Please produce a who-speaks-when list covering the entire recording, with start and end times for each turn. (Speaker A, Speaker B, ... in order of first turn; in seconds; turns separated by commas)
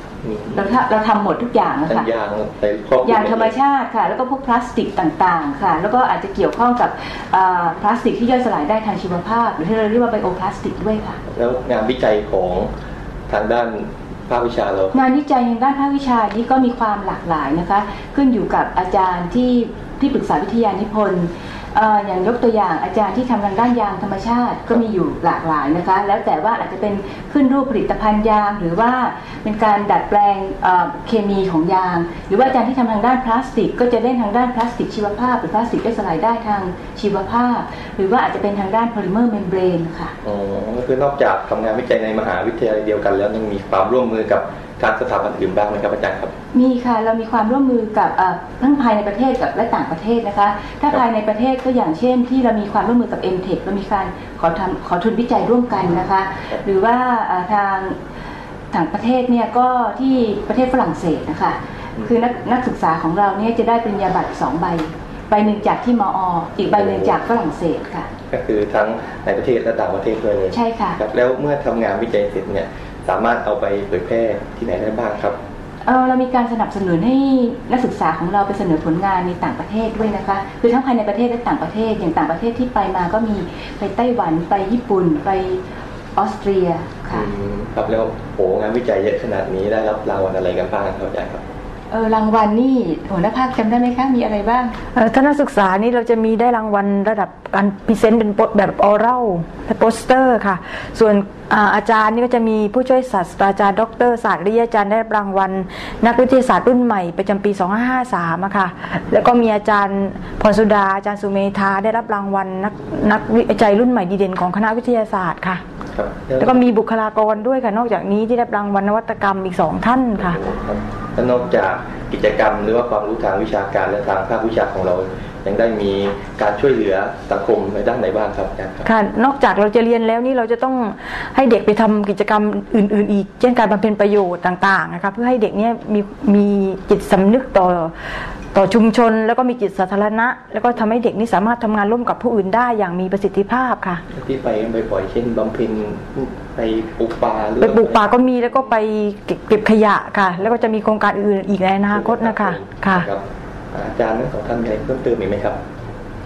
Speaker A: 0.2-0.8, Speaker B: 0.5-2.1, Speaker A: 1.9-3.5, Speaker B: 3.0-11.2, Speaker A: 11.3-12.7, Speaker A: 13.3-15.0, Speaker B: 14.9-40.1, Speaker A: 40.2-46.3, Speaker B: 46.5-58.0, Speaker B: 58.7-68.1, Speaker A: 66.7-67.2, Speaker A: 68.3-75.4, Speaker B: 70.5-71.0, Speaker B: 75.8-85.6, Speaker B: 86.2-87.3, Speaker A: 87.1-91.4, Speaker B: 91.9-94.8, Speaker C: 94.9-115.6, Speaker A: 115.9-116.7, Speaker C: 116.4-120.4, Speaker A: 120.2-128.8, Speaker C: 128.8-137.9, Speaker C: 138.5-144.0, Speaker A: 144.1-148.1, Speaker C: 147.6-153.1, Speaker A: 151.9-155.6